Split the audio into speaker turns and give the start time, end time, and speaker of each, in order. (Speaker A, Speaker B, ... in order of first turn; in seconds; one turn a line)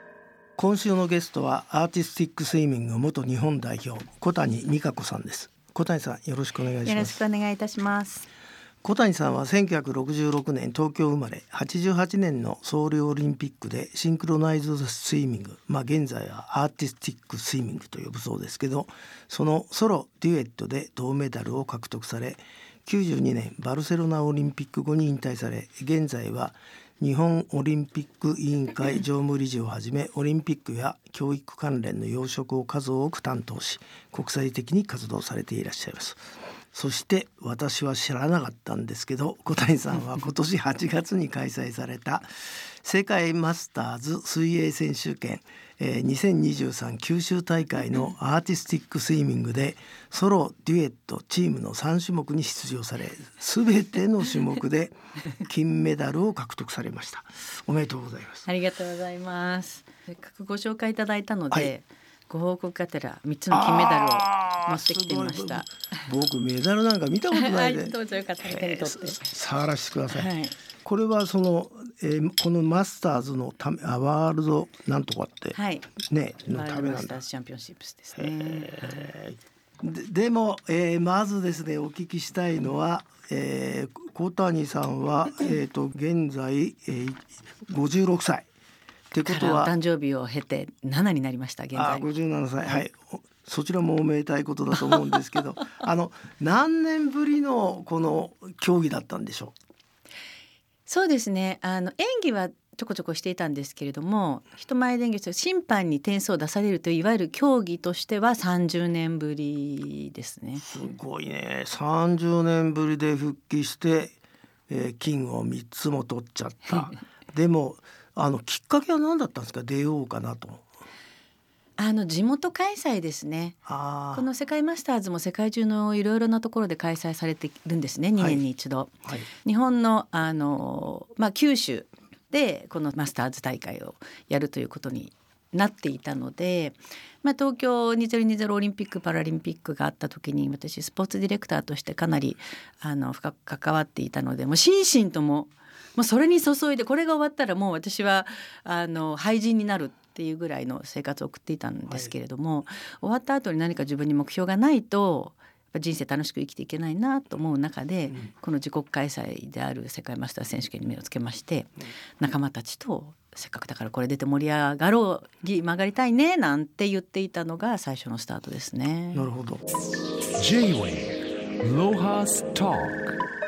Speaker A: 0.6-7.2
Speaker B: 6.8-8.3
Speaker A: 8.8-36.2
Speaker A: 36.7-58.5
Speaker B: 58.5-66.1
Speaker A: 63.5-70.3
Speaker B: 67.3-69.3
Speaker B: 70.1-70.6
Speaker A: 70.8-77.2
Speaker B: 75.5-76.0
Speaker B: 76.5-79.1
Speaker A: 78.2-88.5
Speaker A: 89.1-89.7
Speaker B: 89.2-92.1
Speaker A: 91.8-99.5
Speaker B: 100.9-110.6
Speaker A: 110.6-114.2
Speaker A: 114.7-120.7
Speaker B: 121.8-123.6
Speaker A: 123.7-124.3
Speaker B: 124.1-169.2
Speaker A: 128.2-128.4
Speaker A: 169.1-169.6
Speaker C: 170.3-173.1